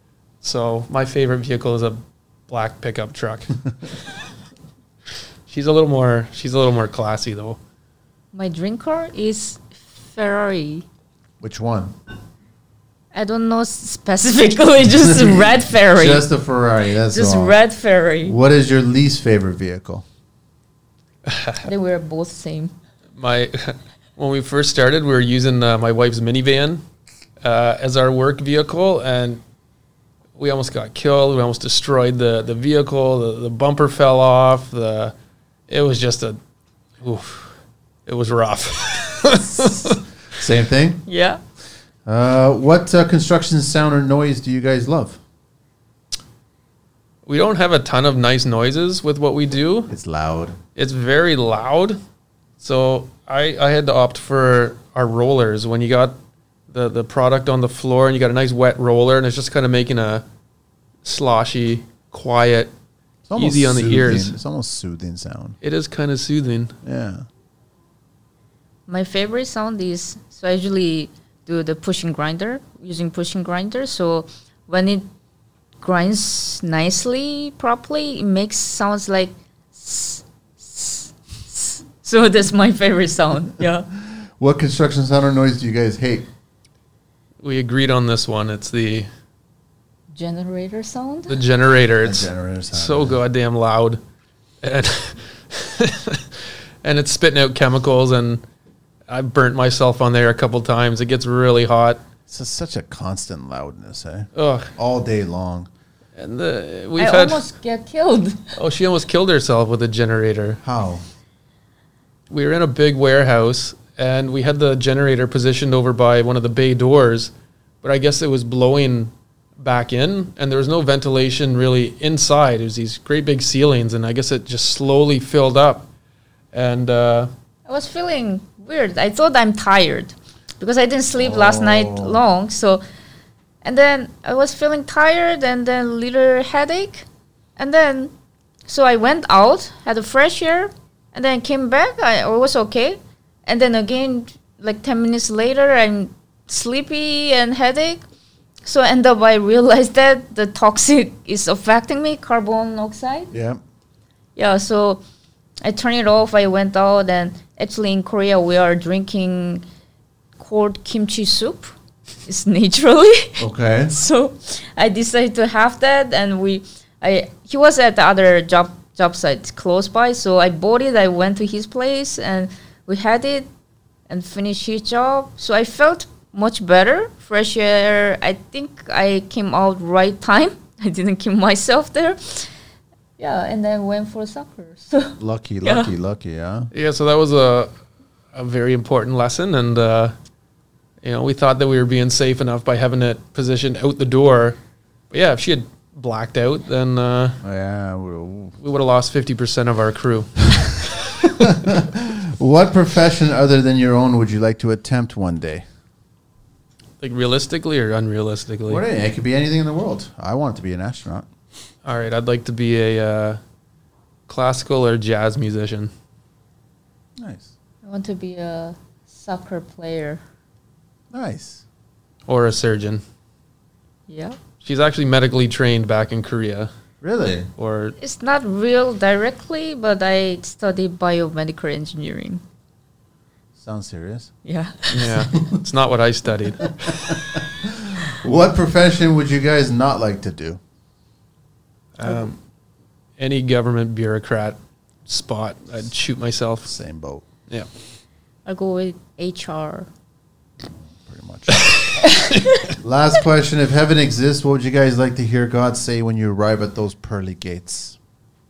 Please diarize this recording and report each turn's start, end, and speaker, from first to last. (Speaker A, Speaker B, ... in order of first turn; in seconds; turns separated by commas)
Speaker A: 0.4-3.9, Speaker A: 5.5-7.6, Speaker B: 8.3-10.9, Speaker C: 11.4-11.9, Speaker B: 13.1-16.3, Speaker C: 15.0-17.6, Speaker B: 17.1-18.4, Speaker C: 18.2-20.1, Speaker A: 21.3-21.6, Speaker B: 21.6-22.7, Speaker A: 23.2-26.8, Speaker A: 27.4-29.4, Speaker A: 30.4-35.1, Speaker A: 35.7-36.4, Speaker A: 37.0-37.5, Speaker A: 38.1-40.0, Speaker C: 39.4-41.0, Speaker B: 41.1-41.4, Speaker C: 42.1-45.2, Speaker A: 47.3-49.9, Speaker C: 49.9-50.6, Speaker A: 50.8-52.0, Speaker A: 52.6-56.1, Speaker A: 56.7-60.2, Speaker A: 61.0-62.7, Speaker C: 63.3-65.6, Speaker A: 63.4-64.3, Speaker A: 65.6-66.7, Speaker C: 66.8-67.3, Speaker B: 68.9-75.1, Speaker B: 75.8-83.9, Speaker C: 84.0-86.3, Speaker A: 87.4-89.1, Speaker B: 90.1-91.4, Speaker A: 91.3-94.0, Speaker C: 92.0-93.2, Speaker A: 94.6-98.4, Speaker A: 99.1-102.0, Speaker C: 102.3-105.7, Speaker A: 104.4-104.7, Speaker A: 106.2-107.5, Speaker B: 107.0-108.6, Speaker A: 108.5-110.6, Speaker C: 110.6-111.0, Speaker A: 112.3-117.3, Speaker A: 117.8-125.9, Speaker A: 126.5-127.3, Speaker B: 127.7-132.8, Speaker C: 131.2-132.2, Speaker B: 133.6-138.1, Speaker B: 138.7-148.0, Speaker B: 148.6-153.3, Speaker C: 153.3-153.6, Speaker B: 154.4-155.0, Speaker B: 155.6-159.6, Speaker B: 160.4-161.7, Speaker B: 162.2-173.5, Speaker C: 163.4-163.9, Speaker B: 174.1-182.5, Speaker B: 183.2-185.9, Speaker C: 185.2-186.7, Speaker A: 186.7-187.7, Speaker A: 188.3-190.1, Speaker A: 191.0-194.6, Speaker A: 195.1-197.4, Speaker C: 197.4-198.6, Speaker A: 198.6-201.3, Speaker C: 201.2-205.6, Speaker A: 207.0-208.8, Speaker C: 208.7-211.3, Speaker A: 211.8-213.4, Speaker A: 214.3-215.9, Speaker C: 217.2-217.5, Speaker B: 217.8-220.2, Speaker C: 221.1-221.6, Speaker A: 222.3-223.0, Speaker B: 224.1-224.4, Speaker A: 224.6-226.7, Speaker C: 227.0-227.5, Speaker A: 227.6-227.9, Speaker B: 228.0-232.4, Speaker C: 233.6-234.3, Speaker B: 234.4-235.3, Speaker A: 234.9-237.4, Speaker C: 236.7-240.6, Speaker A: 242.0-242.4, Speaker A: 243.2-246.7, Speaker C: 246.7-247.3, Speaker B: 248.5-249.9, Speaker C: 250.9-251.8, Speaker A: 251.5-252.4, Speaker B: 252.0-252.6, Speaker C: 252.8-258.0